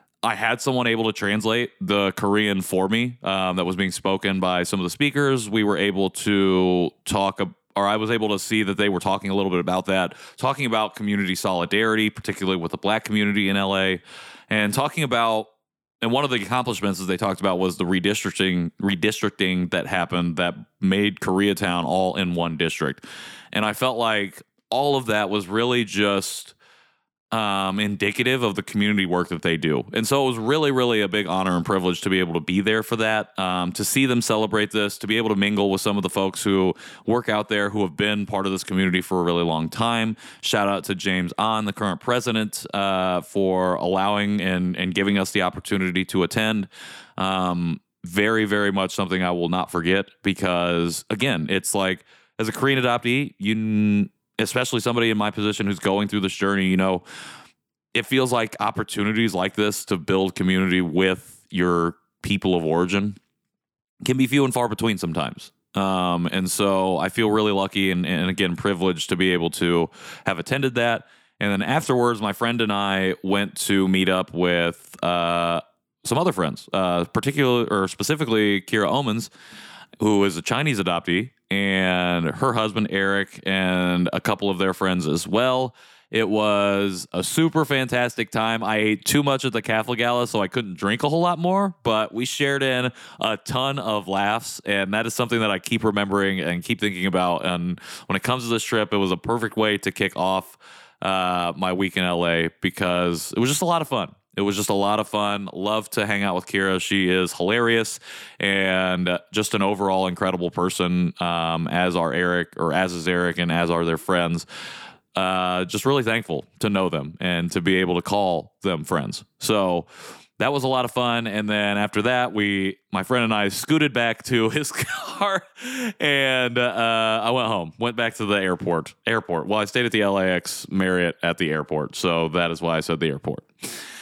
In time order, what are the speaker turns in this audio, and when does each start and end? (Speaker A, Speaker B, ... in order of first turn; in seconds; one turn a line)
Speaker A: 0.2-15.5
Speaker A: 16.0-26.6
Speaker A: 27.3-57.0
Speaker A: 57.9-63.2
Speaker A: 64.0-79.3
Speaker A: 80.0-114.5
Speaker A: 115.1-119.9
Speaker A: 120.4-133.5